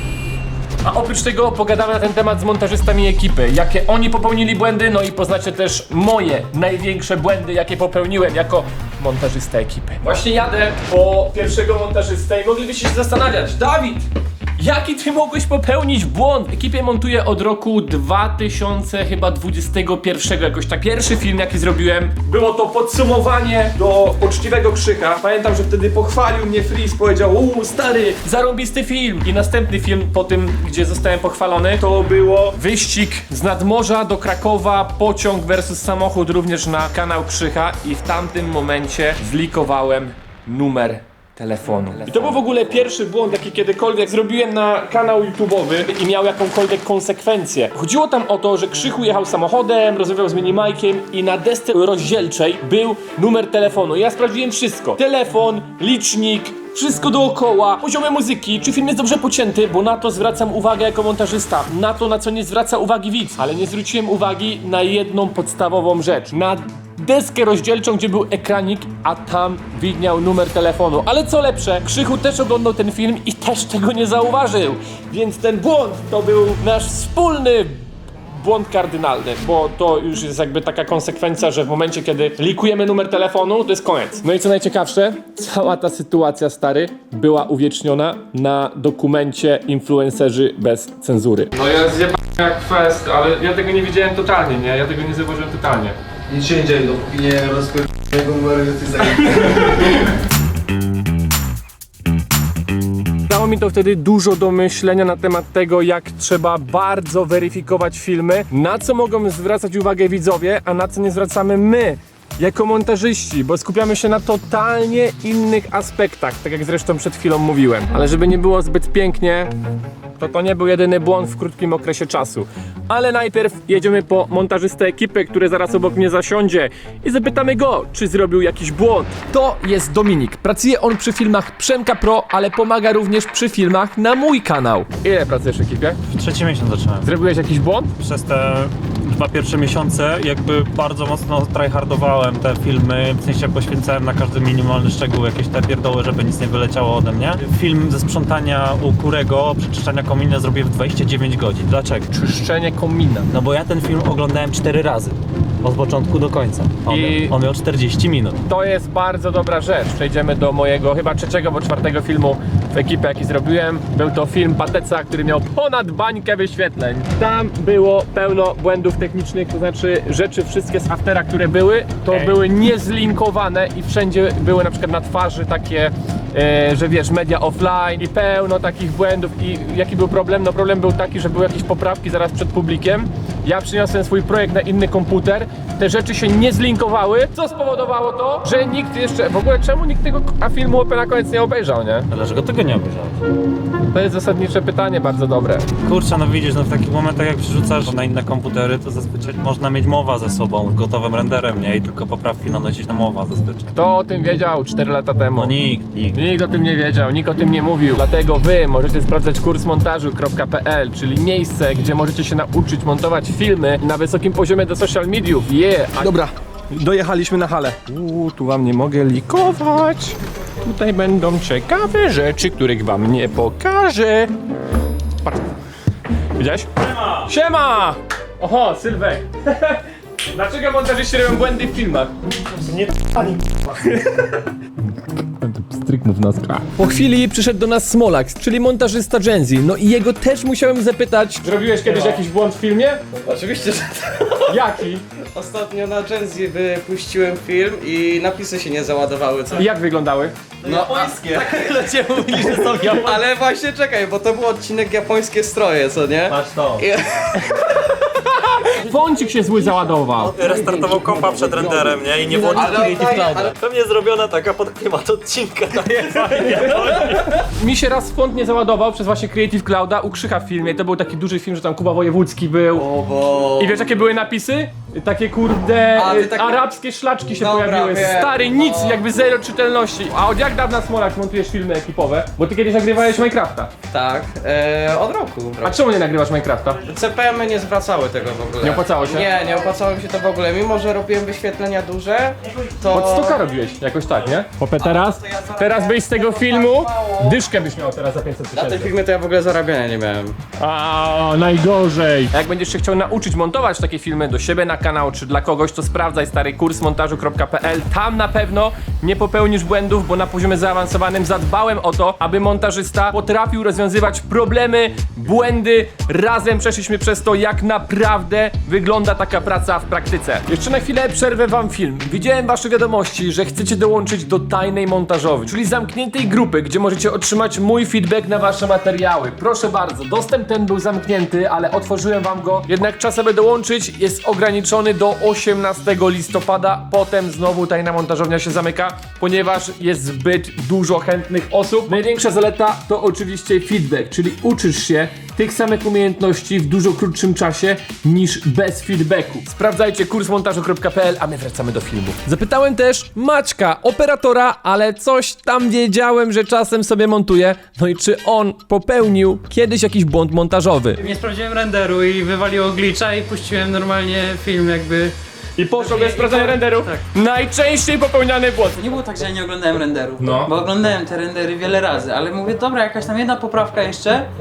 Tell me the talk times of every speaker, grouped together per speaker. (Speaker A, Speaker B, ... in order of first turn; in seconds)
Speaker A: 0.8-14.0, 14.6-77.8, 78.3-96.0, 99.3-99.9, 103.3-119.5, 120.2-136.0, 137.0-137.9, 152.1-153.3, 156.9-157.3, 158.4-192.1, 193.8-195.7, 203.7-205.5, 206.1-224.3, 225.2-225.5, 226.4-232.1, 232.8-234.2, 235.4-243.0, 244.4-245.0, 249.5-250.3, 252.4-252.9, 257.9-260.4, 265.9-272.9, 273.5-283.7, 285.6-286.8, 288.6-289.3, 292.9-298.9, 300.6-361.0, 365.6-368.8, 370.2-370.5
Speaker B: 96.3-99.8
Speaker C: 96.6-98.1, 243.1-244.6, 245.3-249.6, 250.6-257.8, 262.3-263.5, 272.8-273.7, 275.9-276.6, 277.4-279.0, 283.9-285.7, 286.9-293.4, 294.8-297.4, 298.5-300.3
Speaker D: 136.1-137.1, 138.0-152.1, 153.3-158.4, 172.1-172.4, 192.1-193.2, 195.8-203.7, 205.3-206.2, 250.7-251.4, 256.3-256.8, 260.3-267.3
Speaker E: 361.0-365.1, 365.8-367.0, 368.8-374.3